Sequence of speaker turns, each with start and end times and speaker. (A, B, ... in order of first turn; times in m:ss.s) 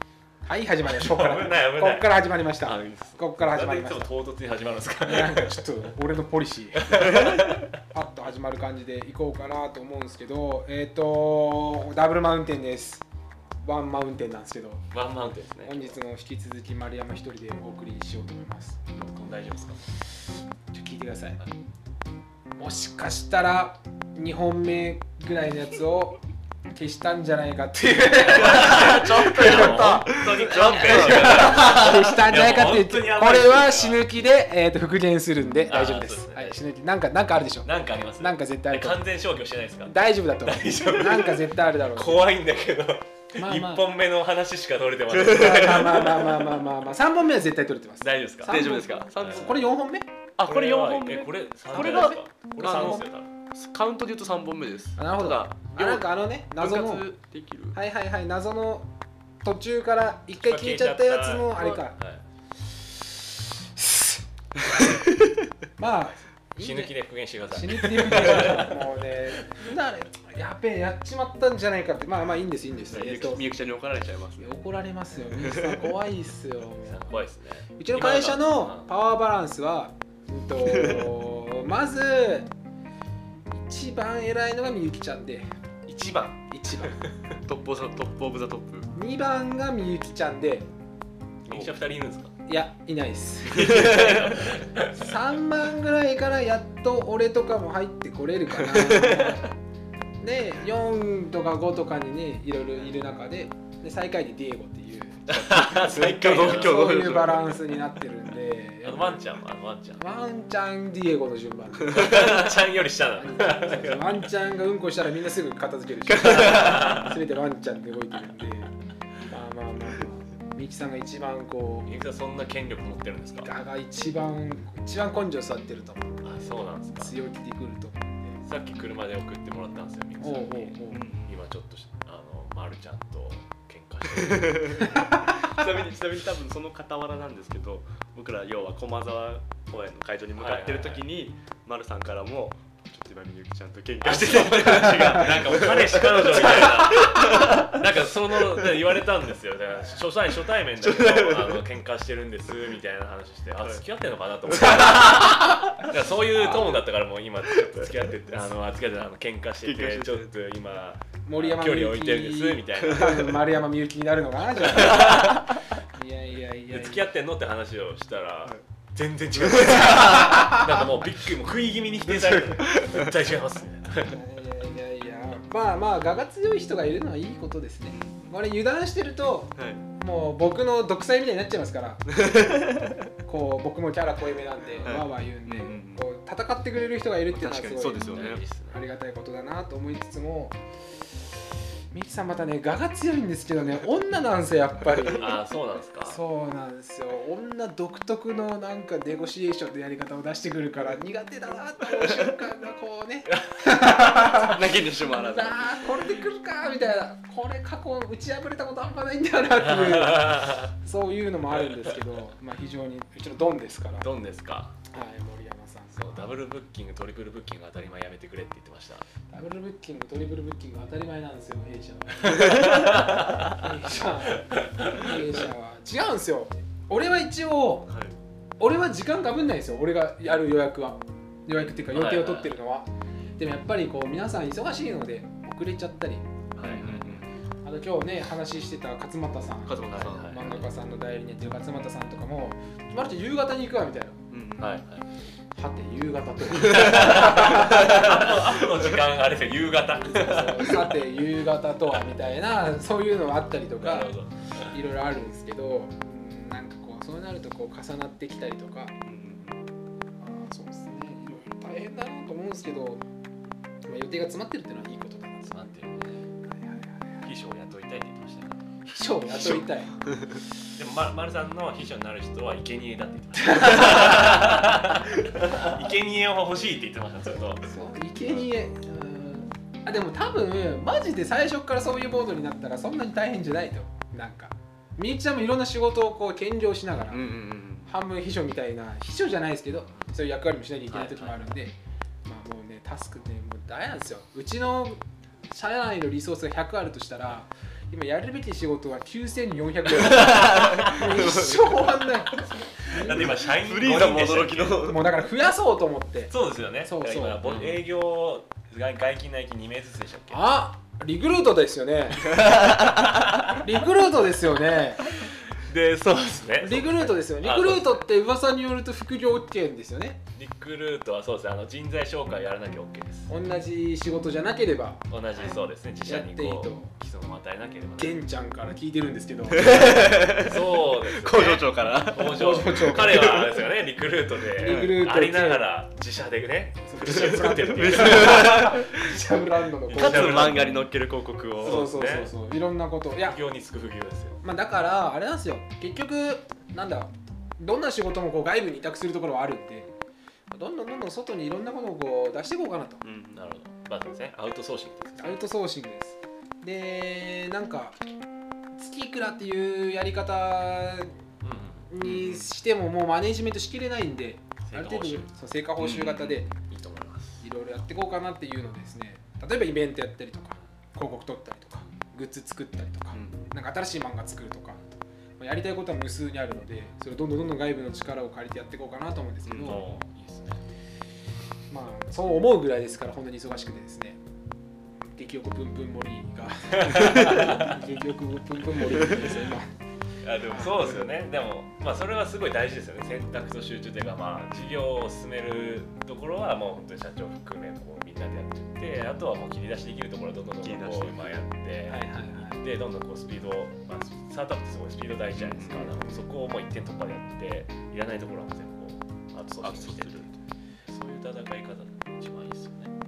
0:00.5-0:04.1 A
0:00.8-0:05.6 B
0:05.0-0:13.1 A
0:06.8-0:07.6 B
0:13.6-0:14.8 A
0:14.9-0:16.0 B
0:15.6-0:18.8 A
0:19.0-0:19.8 B
0:20.7-0:21.4 A
0:22.6-0:26.2 A
0:26.7-0:39.0 A
0:28.2-0:34.0 B
0:28.4-0:32.2 C
0:35.7-0:36.6 B
0:37.6-0:46.5 B
0:39.9-0:42.3 A
0:43.4-0:43.9 A
0:45.1-0:46.0 C
0:45.3-0:50.1 A
0:48.0-0:49.7 B
0:48.5-0:49.7 C
0:50.4-0:53.3 B
0:50.4-0:57.8 C
0:51.7-0:53.1 A
0:55.0-0:57.1 A
0:57.7-0:58.9 A
0:59.4-1:02.0 A
1:00.4-1:02.2 B
1:03.8-1:05.0 A
1:04.8-1:05.5 C
1:05.8-1:07.0 A
1:06.6-1:08.8 B
1:07.5-1:13.5 A
1:08.1-1:08.7 C
1:12.9-1:13.3 B
1:12.9-1:14.6 C
1:14.4-1:17.0 A
1:15.4-1:15.9 C
1:16.8-1:18.9 B
1:17.8-1:22.5 A
1:20.6-1:21.2 C
1:23.5-1:25.5 A
1:25.9-1:26.4 B
1:26.5-1:27.0 A
1:27.5-1:28.9 C
1:28.9-1:30.7 A
1:31.5-1:32.3 B
1:32.5-1:39.5 A
1:33.5-1:34.3 C
1:33.5-1:35.2 B
1:38.6-1:39.4 C
1:40.2-1:45.3 A
1:45.3-1:47.0 B
1:45.3-1:47.6 C
1:46.2-1:49.2 A
1:48.8-1:50.0 B
1:50.0-1:52.4 A
1:51.9-1:54.3 B
1:52.0-1:52.4 C
1:53.2-1:58.7 A
1:56.1-1:56.8 C
1:56.2-1:57.2 B
1:59.3-2:01.9 A
2:01.9-2:03.5 B
2:03.4-2:06.2 A
2:06.2-2:07.2 B
2:07.0-2:08.4 A
2:08.4-2:15.0 B
2:10.2-2:11.1 A
2:10.9-2:11.4 C
2:14.2-2:27.9 C
2:14.8-2:15.5 A
2:20.4-2:21.1 B
2:24.0-2:43.4 B
2:30.8-2:31.6 C
2:34.5-2:36.8 C
2:37.5-2:38.1 C
2:39.6-2:40.3 C
2:41.2-2:47.1 A
2:44.6-2:45.6 B
2:44.8-2:45.2 C
2:46.7-2:54.2 B
2:49.4-2:50.5 C
2:50.0-2:50.8 A
2:52.1-2:52.6 A
2:52.8-2:53.1 C
2:54.1-3:10.6 A
2:57.9-2:58.4 C
2:59.6-2:59.8 C
3:02.1-3:03.1 C
3:04.8-3:06.1 C
3:07.3-3:08.4 C
3:08.0-3:08.8 B
3:11.9-3:15.3 A
3:15.2-3:16.2 B
3:16.0-3:34.1 A
3:23.3-3:24.3 B
3:24.1-3:26.1 C
3:29.6-3:30.7 B
3:31.6-3:32.2 B
3:34.0-3:34.8 B
3:34.9-3:36.3 A
3:36.0-3:39.1 B
3:39.3-3:47.9 A
3:42.2-3:43.6 B
3:44.4-3:45.2 B
3:47.9-3:48.2 C
3:48.6-3:56.3 A
3:51.6-3:52.5 B
3:56.6-3:57.2 B
3:56.6-3:57.4 C
3:57.6-4:04.2 A
3:59.7-4:00.5 C
3:59.9-4:00.6 B
4:04.3-4:04.8 C
4:04.6-4:05.1 B
4:05.6-4:08.3 A
4:06.6-4:11.2 B
4:07.8-4:08.3 C
4:10.0-4:19.0 A
4:13.8-4:14.8 B
4:19.1-4:19.6 C
4:20.2-4:23.0 A
4:23.9-4:25.7 A
4:25.4-4:26.3 B
4:26.4-4:27.2 A
4:27.2-4:28.7 B
4:28.8-4:29.9 A
4:29.4-4:30.4 C
4:30.7-4:37.7 B
4:33.4-4:34.4 A
4:37.7-4:47.4 A
4:47.1-4:47.9 C
4:47.9-5:03.4 A
4:50.9-4:51.6 B
5:00.0-5:01.4 B
5:00.2-5:02.0 C
5:02.9-5:04.9 B
5:03.1-5:05.2 C
5:04.8-5:07.4 A
5:06.3-5:10.4 B
5:07.4-5:07.8 C
5:10.3-5:12.4 A
5:12.2-5:13.6 B
5:12.3-5:13.2 C
5:13.6-5:15.1 A
5:15.5-5:18.0 B
5:16.6-5:20.2 A
5:20.4-5:23.3 B
5:23.3-5:26.9 A
5:25.1-5:28.2 B
5:28.0-5:30.4 A
5:29.5-5:33.5 C
5:29.9-5:38.8 B
5:32.3-5:33.5 A
5:34.6-5:35.0 C
5:34.6-5:35.6 A
5:36.9-5:40.6 A
5:37.0-5:39.2 C
5:39.9-5:40.8 B
5:39.9-5:41.9 C
5:41.6-5:42.3 B
5:41.6-5:43.4 A
5:43.2-5:44.4 B
5:44.4-5:49.9 A
5:50.5-5:53.0 A
5:53.0-5:53.4 C
5:53.3-5:55.4 B
5:55.2-5:58.0 A
5:58.8-6:01.2 A
6:01.4-6:02.5 B
6:01.9-6:06.5 A
6:04.7-6:07.4 B
6:07.4-6:14.8 A
6:13.1-6:13.4 C
6:15.4-6:20.0 A
6:19.5-6:19.8 C
6:19.5-6:20.6 B
6:21.7-6:24.2 A
6:25.1-6:29.7 A
6:26.7-6:27.8 B
6:30.2-6:50.3 B
6:30.4-6:31.1 A
6:40.6-6:41.4 C
6:41.9-6:42.6 A
6:45.3-6:45.8 C
6:45.7-6:46.3 A
6:49.6-6:50.4 C
6:50.9-6:52.9 B